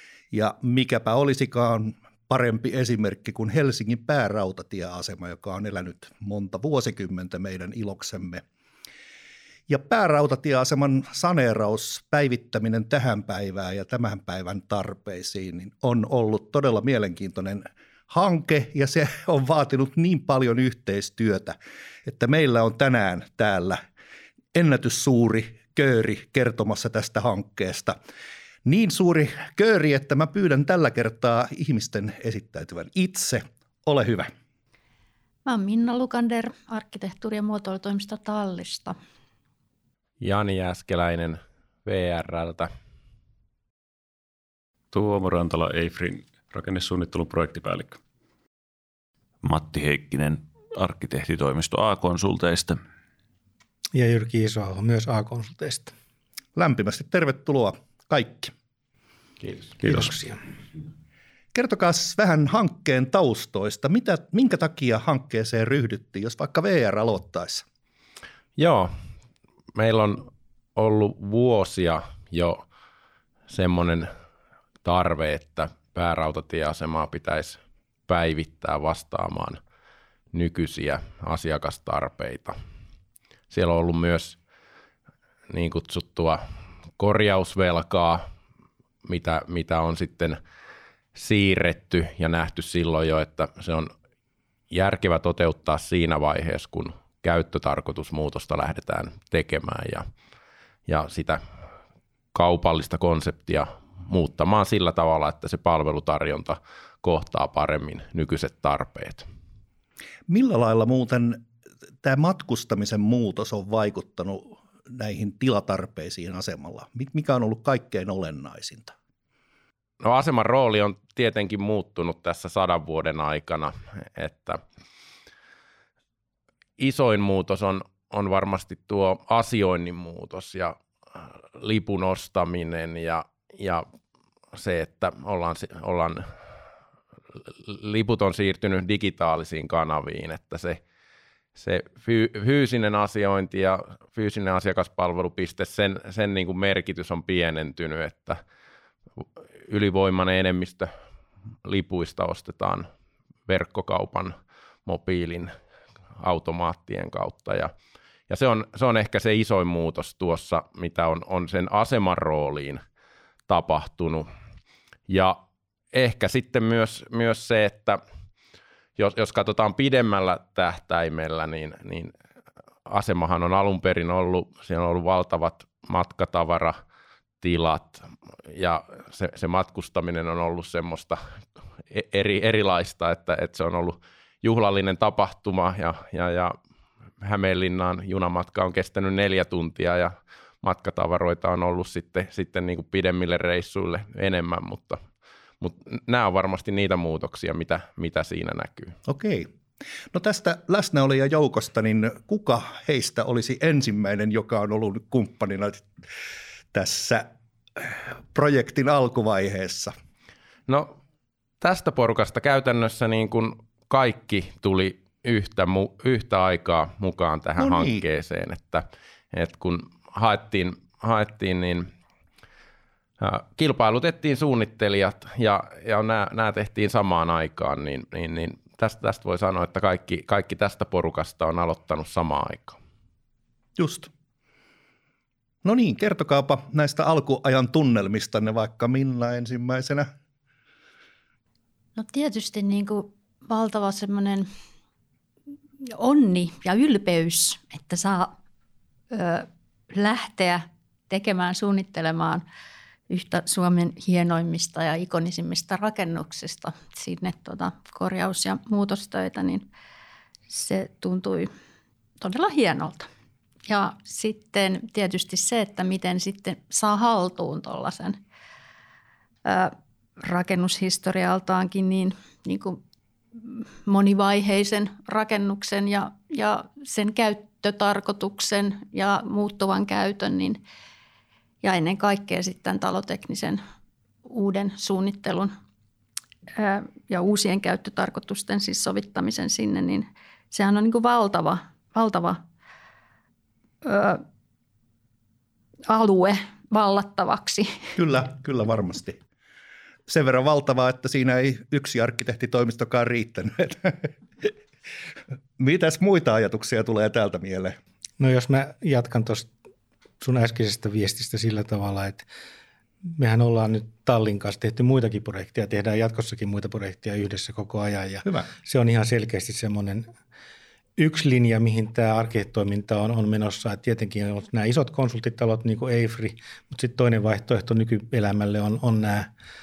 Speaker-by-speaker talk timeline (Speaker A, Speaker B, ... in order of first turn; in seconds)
Speaker A: 0.3-8.4, 9.7-23.8, 24.5-28.0, 28.6-34.3, 56.5-58.5, 61.5-67.6, 110.3-111.4, 112.0-118.9, 199.1-199.5, 200.1-205.9, 206.7-209.9, 217.6-218.0, 233.8-234.1, 235.6-240.1, 298.0-299.2, 300.1-304.5, 305.6-307.8
Speaker B: 35.5-39.0, 241.9-244.5, 245.8-248.3, 249.1-252.4, 253.1-259.6, 260.5-261.5, 262.2-263.1, 263.7-268.2, 269.4-272.8, 273.4-280.6, 281.6-283.6, 284.2-285.5, 286.6-292.4, 293.8-294.2, 295.9-297.9
Speaker C: 40.2-42.7, 68.6-68.9, 69.7-72.6, 73.5-74.1, 74.8-79.6, 80.3-82.6, 83.5-84.4, 85.5-86.4, 87.0-88.3, 89.0-90.4, 91.1-93.9, 94.7-100.0, 100.9-101.4, 102.3-109.3, 120.0-124.6, 126.8-130.8, 131.6-133.8, 134.5-136.3, 137.6-140.8, 141.6-148.4, 149.7-150.9, 151.6-152.9, 153.5-154.3, 154.8-155.5, 156.2-157.7, 158.3-162.8, 163.5-164.3, 165.1-165.4, 165.9-168.0, 169.0-172.1, 172.9-176.8, 177.4-181.2, 181.9-186.6, 187.2-195.0, 195.6-198.9, 211.6-221.9, 223.2-232.8
Speaker D: 44.9-48.0, 59.8-60.1
Speaker E: 49.4-52.8
Speaker F: 53.9-55.9, 59.8-60.4, 308.2-309.5, 310.2-312.2, 313.1-320.1, 321.0-329.3